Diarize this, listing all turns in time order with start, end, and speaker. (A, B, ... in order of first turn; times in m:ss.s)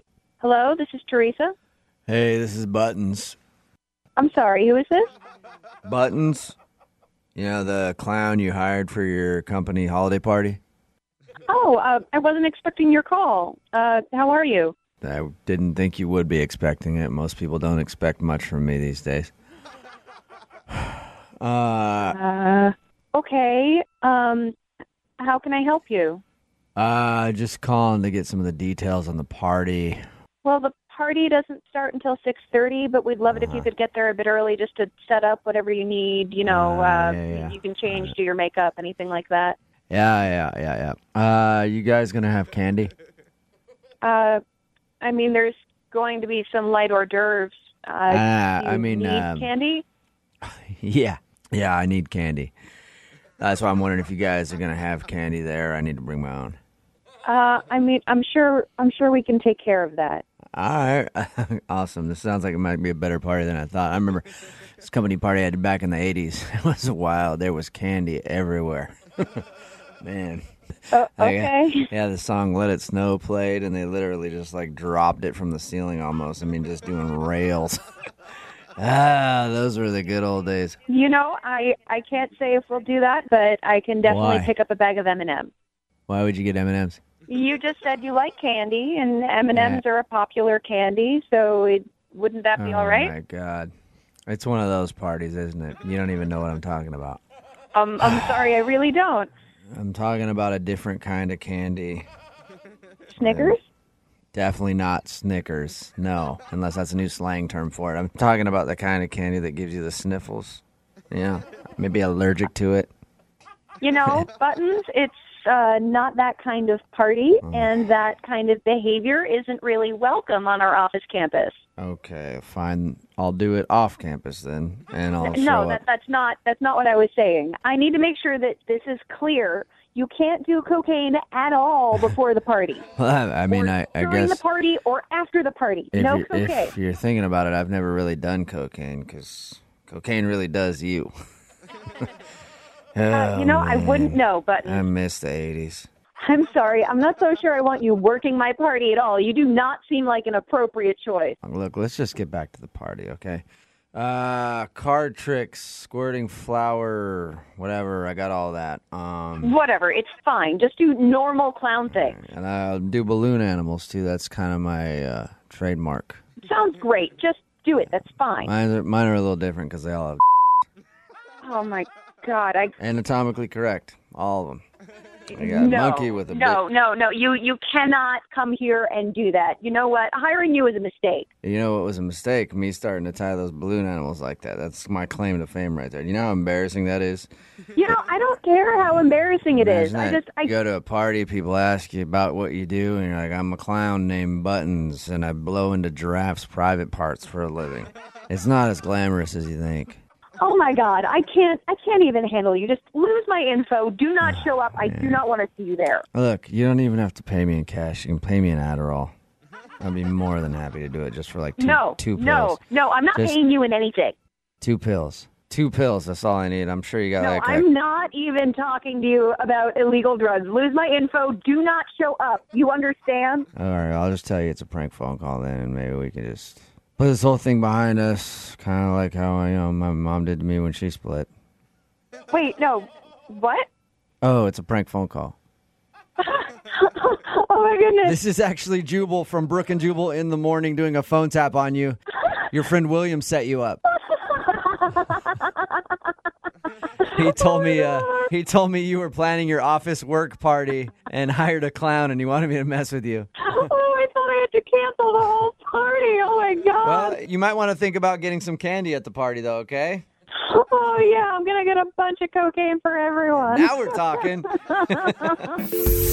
0:00.4-0:01.5 A
0:02.1-0:03.4 B
0:04.2-0:05.1 A
0:05.8-0:06.6 B
0:07.4-0:10.6 B
0:11.5-0:14.7 A
0:15.0-0:19.3 B
0:20.7-0:22.2 B
0:22.1-0:24.6 A
0:25.2-0:26.2 A
0:26.8-0:30.0 B
0:30.4-0:39.6 A
0:33.3-0:33.7 B
0:36.4-0:38.1 B
0:39.9-0:42.9 B
0:44.0-0:44.4 A
0:45.0-0:49.8 A
0:48.1-0:49.5 B
0:50.4-0:52.5 B
0:53.4-0:56.6 B
0:57.2-1:00.2 A
1:00.6-1:04.3 B
1:04.8-1:09.4 B
1:10.0-1:17.8 B
1:10.9-1:11.9 A
1:18.8-1:20.8 B
1:20.9-1:25.5 A
1:24.0-1:24.5 B
1:26.1-1:27.0 B
1:27.3-1:33.1 A
1:29.5-1:29.8 B
1:32.6-1:33.7 B
1:34.3-1:37.2 B
1:37.7-1:39.3 A
1:39.7-1:42.1 B
1:43.1-1:43.6 A
1:43.2-1:43.6 B
1:44.3-1:52.9 B
1:53.8-2:01.6 A
1:57.4-1:57.8 B
2:01.8-2:05.8 B
2:05.2-2:12.9 A
2:13.0-2:14.4 B
2:13.5-2:16.7 A
2:15.9-2:21.1 B
2:23.0-2:25.9 B
2:23.1-2:24.9 A
2:26.2-2:31.4 A
2:31.4-2:33.4 B
2:33.9-2:39.6 B
2:39.4-2:42.2 A
2:41.9-2:46.2 B
2:46.4-2:48.5 A
2:48.4-2:50.2 B
2:51.4-2:52.8 A
2:52.8-2:54.6 B
2:55.3-3:01.3 A
2:55.3-2:56.6 B
3:01.4-3:07.3 B
3:07.8-3:10.5 A
3:09.5-3:20.0 B
3:20.4-3:26.1 A
3:24.3-3:25.2 B
3:26.1-3:29.1 B
3:29.8-3:32.6 B
3:31.6-3:34.2 A
3:34.6-3:37.7 B
3:37.2-3:43.5 A
3:43.6-3:51.3 B
3:52.3-3:53.7 A
3:54.2-3:55.4 B
3:56.2-3:58.2 A
3:58.0-4:02.0 B
4:02.5-4:03.8 B
4:04.1-4:05.6 A
4:07.0-4:08.3 A
4:07.1-4:13.3 B
4:13.4-4:17.2 A
4:16.8-4:20.0 B
4:20.3-4:25.5 A
4:23.3-4:25.6 B